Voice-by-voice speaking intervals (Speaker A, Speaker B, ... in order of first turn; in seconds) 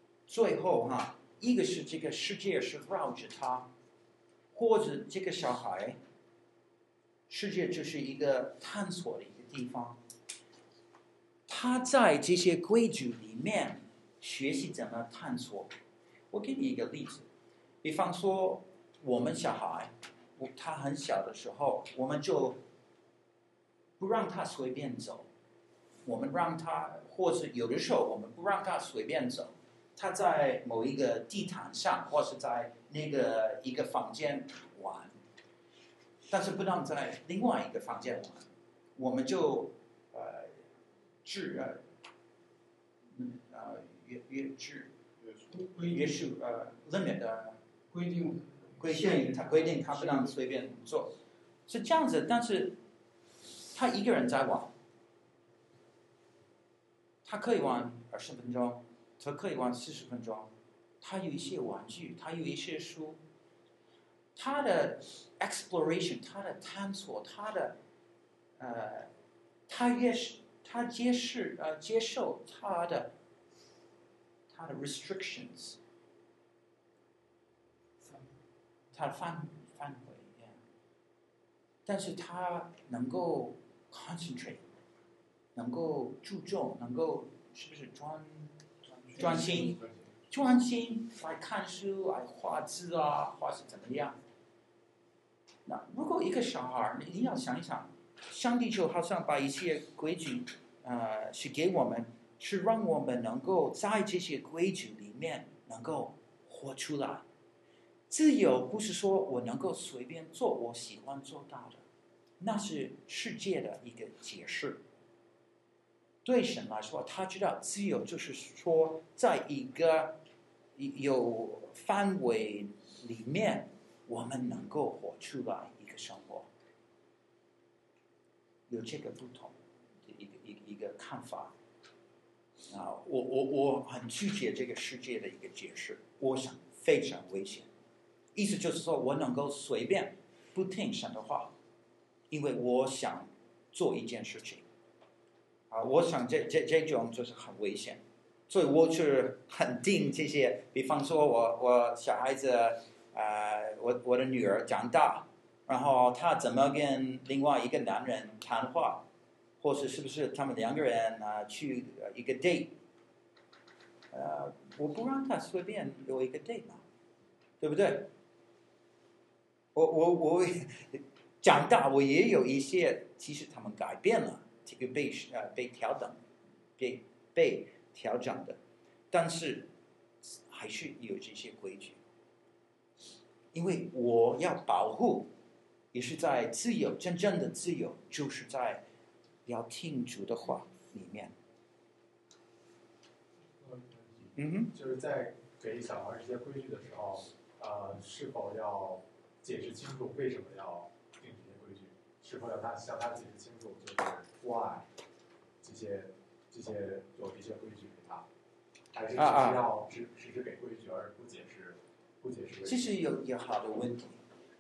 Speaker A: 0.3-3.7, 4.5-6.0, 7.3-10.0, 11.5-15.7, 16.3-17.3, 17.8-22.6, 24.0-25.3, 26.1-35.2, 36.3-38.5, 39.0-40.6, 41.2-41.8, 43.1-44.9, 45.8-47.6, 48.8-51.1, 51.7-52.8, 53.7-54.7, 57.2-63.2, 64.4-67.8, 68.6-69.1, 69.7-73.1, 74.5-75.8, 78.9-80.6, 81.9-84.6, 85.5-88.5, 89.1-94.2, 95.7-107.2, 108.1-111.8, 112.4-114.8, 116.2-120.2, 120.8-126.5, 128.7-131.5, 132.7-137.7, 138.3-141.5, 142.3-144.7, 145.7-159.0, 159.6-162.7, 164.1-166.8, 167.6-168.1, 169.8-176.3, 176.8-178.6, 179.1-179.7, 180.2-182.0, 183.5-185.3, 185.9-188.8, 189.5-191.3, 194.4-194.7, 209.2-209.6, 212.7-214.2
Speaker B: 45.5-46.2, 47.9-50.4
Speaker C: 193.6-194.0, 194.7-204.9, 205.6-208.3, 208.9-212.8